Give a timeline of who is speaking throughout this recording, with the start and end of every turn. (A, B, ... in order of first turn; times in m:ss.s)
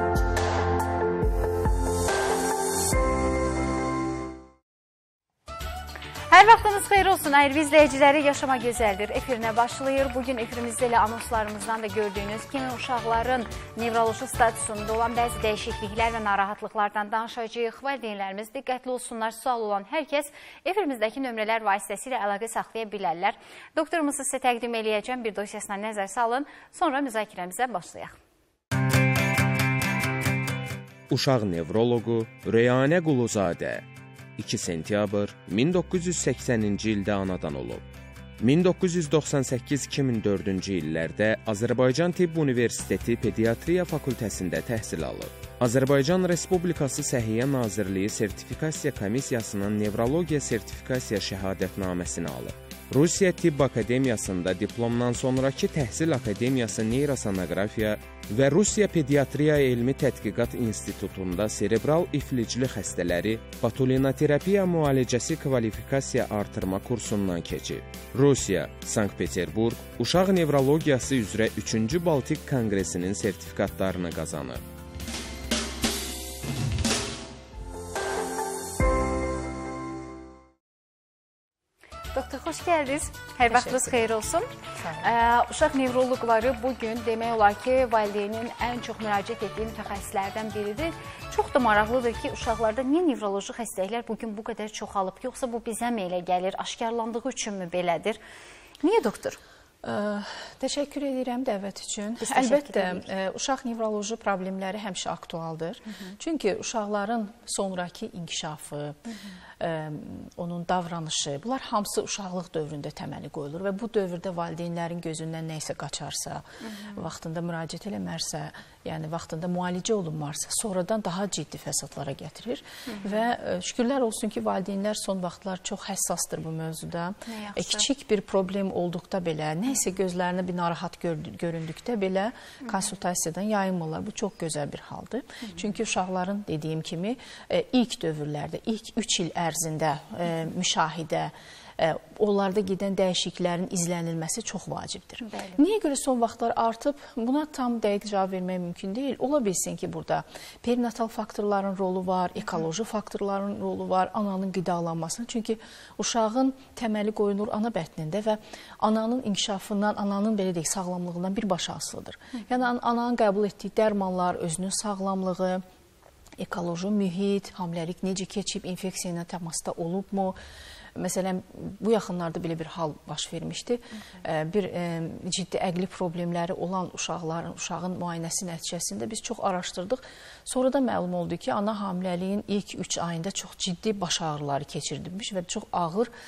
0:06.3-0:28.2 A
0:31.1-0:33.8 B
0:34.4-0:37.8 B
0:38.4-1:14.6 B
1:22.1-1:24.5 A
1:23.5-1:24.1 C
1:24.8-1:25.1 C
1:25.0-1:38.2 A
1:38.8-1:39.4 A
1:39.8-1:49.0 C
1:42.2-1:43.0 A
1:49.6-2:45.6 C
2:07.3-2:07.8 A
2:25.2-2:25.6 A
2:46.4-2:50.4 C
2:51.0-3:06.1 C